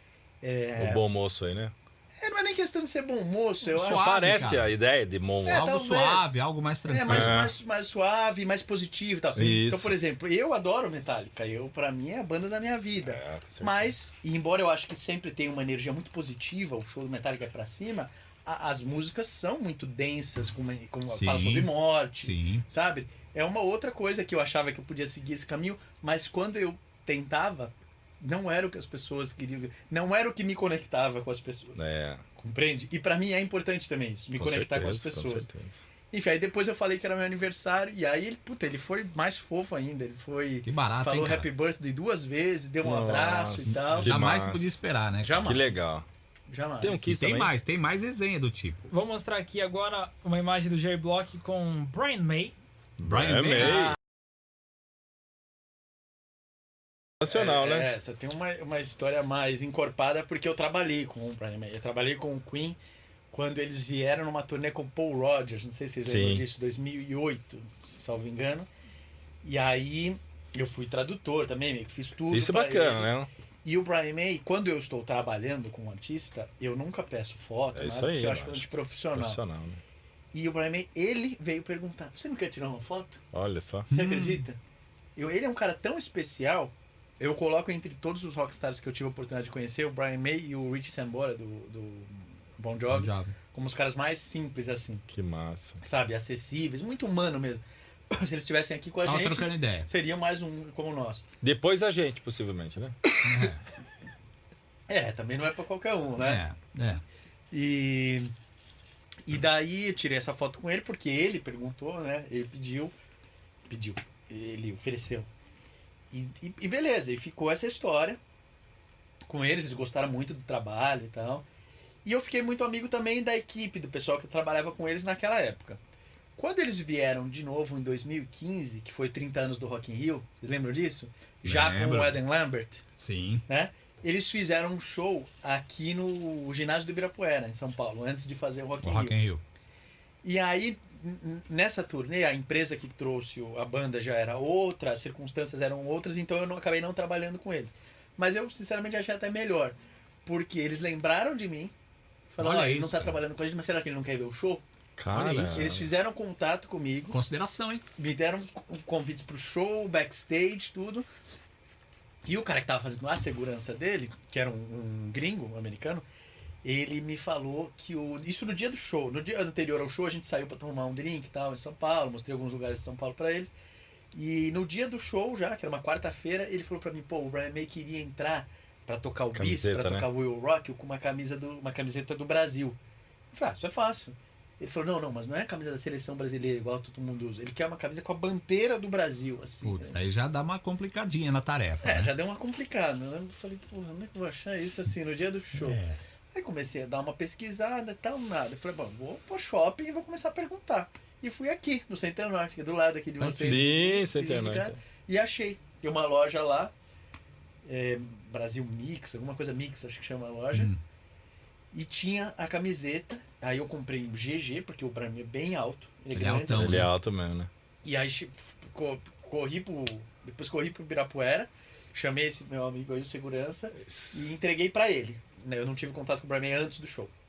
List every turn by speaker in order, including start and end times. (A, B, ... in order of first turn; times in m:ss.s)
0:00.4-0:01.0 A
0:00.8-0:01.7 B
0:02.2-0:04.1 A
0:03.6-0:04.7 C
0:03.7-0:05.7 B
0:05.4-0:07.5 C
0:05.4-0:31.8 A
0:07.1-0:07.5 B
0:09.3-0:10.0 B
0:13.0-0:13.9 B
0:21.1-0:22.6 C
0:31.8-0:32.2 B
0:32.4-0:35.5 A
0:34.3-0:35.8 B
0:36.1-0:44.2 A
0:40.6-0:41.5 C
0:42.8-0:44.7 B
0:43.6-0:45.8 C
0:45.2-0:45.9 A
0:45.4-0:46.0 B
0:46.5-0:47.0 A
0:46.8-0:47.5 B
0:47.0-0:48.9 C
0:48.9-0:52.5 D
0:53.0-0:54.0 C
0:53.0-0:54.0 B
0:57.2-0:57.9 B
0:57.2-1:02.8 A
1:03.3-1:08.7 A
1:06.0-1:06.4 B
1:09.4-1:19.4 A
1:12.3-1:13.3 B
1:17.7-1:19.8 B
1:20.3-1:23.2 A
1:23.3-1:23.9 B
1:23.9-1:24.6 A
1:23.9-1:24.4 C
1:25.2-1:35.0 A
1:32.9-1:33.3 C
1:35.1-1:35.8 B
1:35.8-1:41.2 A
1:39.0-1:39.9 C
1:41.4-1:42.9 B
1:43.1-1:43.5 A
1:43.2-1:43.6 C
1:44.9-1:46.4 A
1:46.2-1:47.0 C
1:47.5-1:48.3 A
1:49.2-1:52.9 A
1:53.7-1:55.3 A
1:56.1-1:58.2 A
1:59.3-2:01.4 A
2:02.0-2:05.8 A
2:06.4-2:12.8 A
2:11.4-2:12.2 C
2:13.0-2:13.4 C
2:13.5-2:19.1 A
2:18.8-2:19.4 C
2:20.2-2:31.7 A
2:32.3-2:37.2 A
2:32.4-2:33.2 C
2:35.0-2:35.8 B
2:35.1-2:35.8 C
2:37.1-2:37.8 C
2:38.0-2:41.1 A
2:42.2-2:46.0 A
2:46.6-2:53.5 A
2:54.1-3:02.8 A
2:59.3-3:00.0 B
3:03.3-3:10.0 A
3:09.6-3:12.1 C
3:11.8-3:15.8 A
3:15.5-3:16.0 C
3:16.3-3:26.7 A
3:23.2-3:23.6 C
3:23.4-3:24.8 B
3:27.6-3:30.7 A
3:30.5-3:30.8 C
3:31.7-3:36.9 A
3:36.1-3:36.9 C
3:36.5-3:37.5 B
3:37.8-3:47.1 A
3:43.9-3:44.2 B